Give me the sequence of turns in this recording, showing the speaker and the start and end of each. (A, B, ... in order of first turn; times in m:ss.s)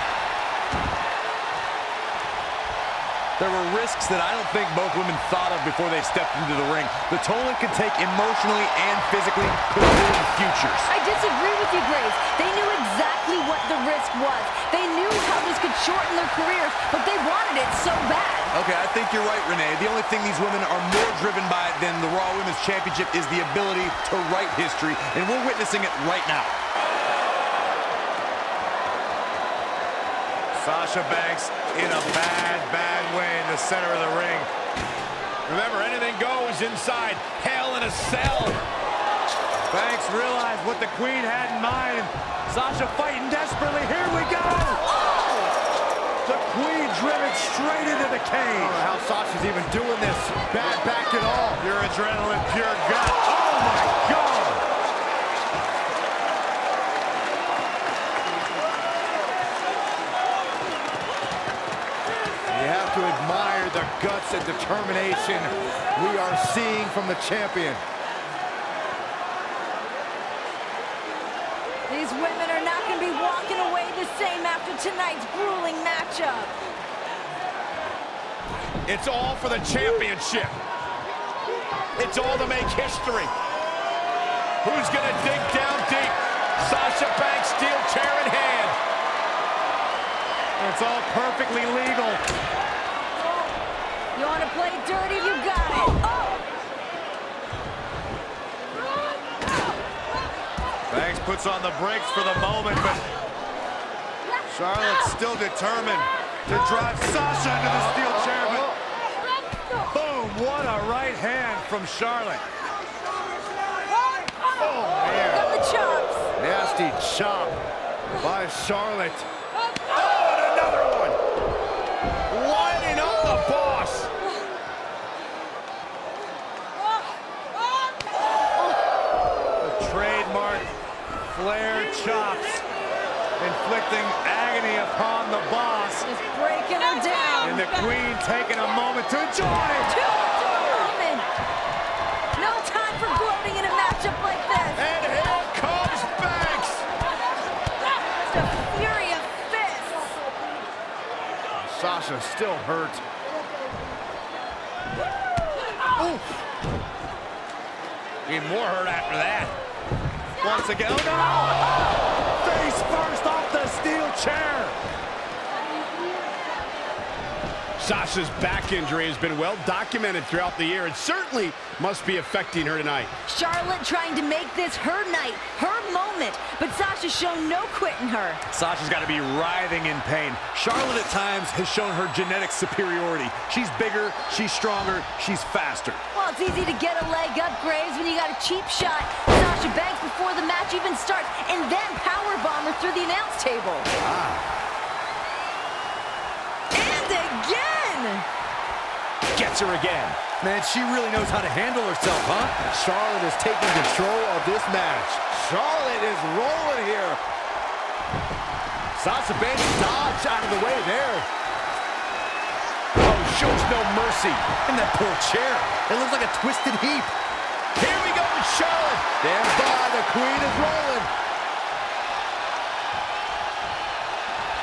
0:03.4-0:10.9 A
0:10.9-0:18.5 B
0:18.5-0:20.7 C
0:18.6-0:26.6 A
0:30.5-0:34.5 A
0:35.4-0:38.6 D
0:39.7-0:44.8 A
0:45.0-0:45.3 B
0:46.2-0:48.8 A
0:48.5-0:51.6 C
0:51.6-0:54.6 A
1:02.5-1:07.8 C
1:11.9-1:16.6 B
1:18.8-1:20.6 D
1:22.0-1:23.3 D
1:24.6-1:28.7 D
1:30.6-1:32.2 A
1:34.1-1:36.4 B
1:40.9-1:43.0 A
1:44.5-1:48.6 A
1:47.8-1:48.8 C
1:49.8-1:52.4 A
1:54.6-1:55.5 D
1:55.0-1:56.3 B
1:56.4-1:57.6 C
1:58.2-1:59.3 C
1:59.9-2:01.2 D
2:02.3-2:04.1 D
2:09.6-2:10.7 A
2:11.3-2:12.6 A
2:13.4-2:16.1 A
2:16.0-2:17.7 B
2:17.4-2:19.9 A
2:19.8-2:21.3 B
2:22.4-2:24.9 B
2:24.8-2:26.8 D
2:27.9-2:30.2 B
2:31.6-2:33.0 C
2:36.0-2:36.2 C
2:38.2-2:39.5 D
2:40.4-2:41.6 A
2:42.4-2:44.8 A
2:47.8-2:53.1 D
2:53.2-2:58.4 B
2:58.5-3:06.0 A
3:06.1-3:13.9 B
3:14.0-3:14.4 C
3:16.7-3:18.2 B
3:19.3-3:20.2 D
3:20.4-3:22.5 A
3:22.5-3:27.2 C
3:29.0-3:31.3 C
3:33.0-3:34.5 D
3:34.6-3:35.8 A
3:35.8-3:37.1 C
3:37.8-3:39.0 D
3:39.2-3:41.1 C